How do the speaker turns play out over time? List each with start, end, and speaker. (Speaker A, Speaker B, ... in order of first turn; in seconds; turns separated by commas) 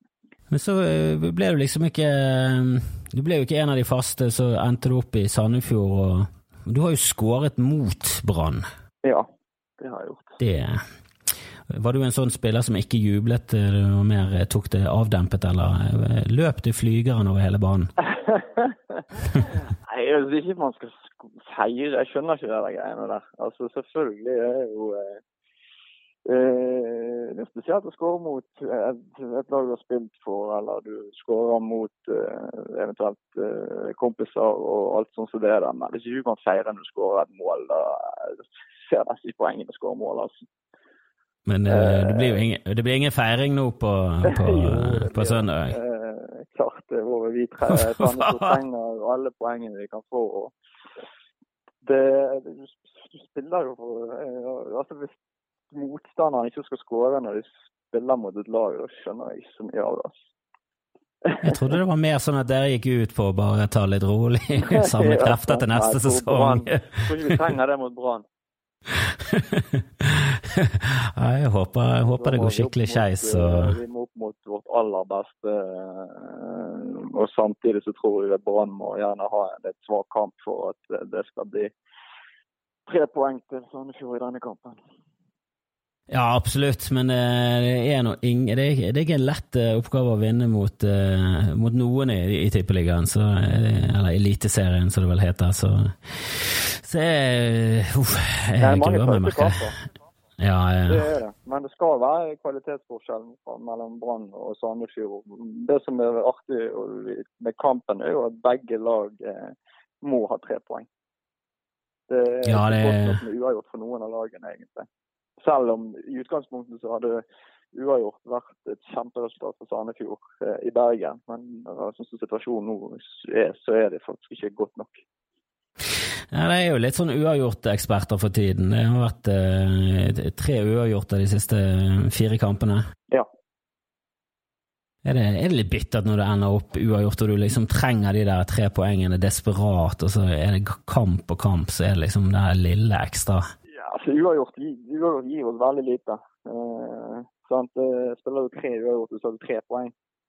Speaker A: 0.5-8.6, Speaker B: 9.8-10.3, Speaker A: 10.4-10.8, Speaker A: 11.7-17.9, Speaker B: 18.3-18.7, Speaker B: 19.8-25.2, Speaker B: 26.2-40.4, Speaker A: 41.5-45.8, Speaker B: 41.7-42.4, Speaker B: 44.2-50.5, Speaker A: 47.7-48.6, Speaker B: 51.8-55.1, Speaker B: 55.7-60.1, Speaker B: 61.2-61.8, Speaker A: 61.4-67.1, Speaker B: 64.7-68.2, Speaker A: 69.3-73.8, Speaker B: 72.2-81.7, Speaker B: 82.9-84.8, Speaker A: 86.1-99.6, Speaker B: 98.6-99.7, Speaker A: 100.4-101.1, Speaker B: 100.9-110.9, Speaker B: 112.1-114.9, Speaker A: 112.4-113.2, Speaker B: 115.4-125.0, Speaker A: 126.3-132.8, Speaker A: 135.0-143.4, Speaker B: 143.7-149.9